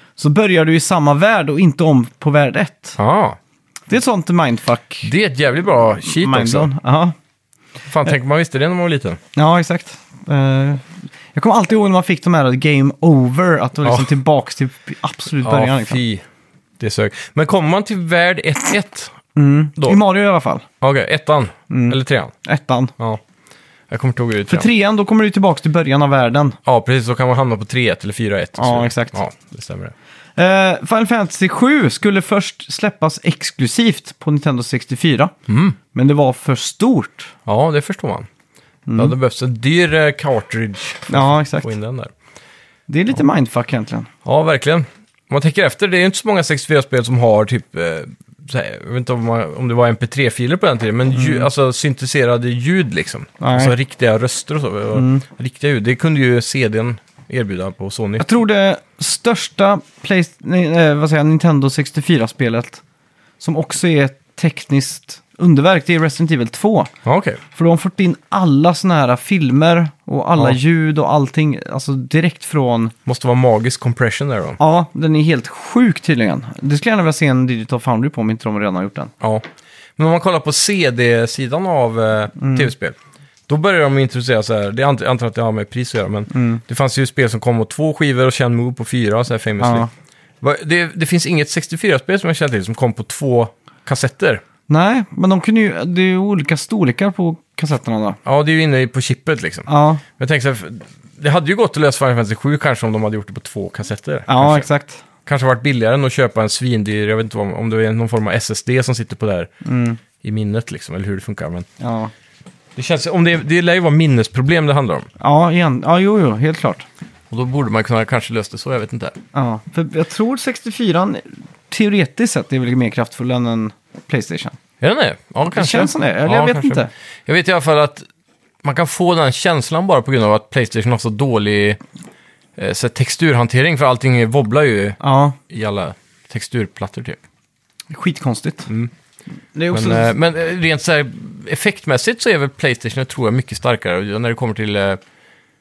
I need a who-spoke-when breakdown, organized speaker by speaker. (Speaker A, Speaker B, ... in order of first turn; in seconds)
Speaker A: 0.2-3.0, 3.9-5.1, 6.0-7.1, 9.3-16.0, 19.3-20.6, 21.7-22.9, 24.5-26.6, 28.6-29.2, 30.4-35.3, 35.9-37.3, 38.9-39.1, 41.1-41.7, 42.9-44.1, 51.1-51.5, 53.4-53.7, 54.9-55.2, 58.2-62.8, 63.4-66.9, 67.5-72.9, 74.6-79.1, 82.4-82.7, 86.3-86.6, 89.6-89.9, 94.7-98.2, 99.7-100.0, 104.3-105.0, 109.6-110.0, 111.8-112.1, 115.2-116.8, 119.3-124.6, 125.5-126.9, 135.0-135.4, 137.9-138.7, 139.5-140.1
Speaker B: 3.0-3.4, 5.0-6.7, 7.9-9.2, 13.8-14.1, 15.4-16.2, 16.8-19.2, 20.8-22.3, 23.9-24.7, 26.6-29.9, 35.5-35.8, 37.5-38.3, 39.0-42.1, 44.2-58.2, 67.0-67.4, 73.0-74.6, 80.0-83.0, 83.5-89.9, 90.4-94.4, 98.2-104.7, 105.2-109.5, 110.2-111.7, 112.8-115.1, 117.3-119.2, 124.8-128.0, 128.6-131.8, 132.6-137.2, 139.7-145.0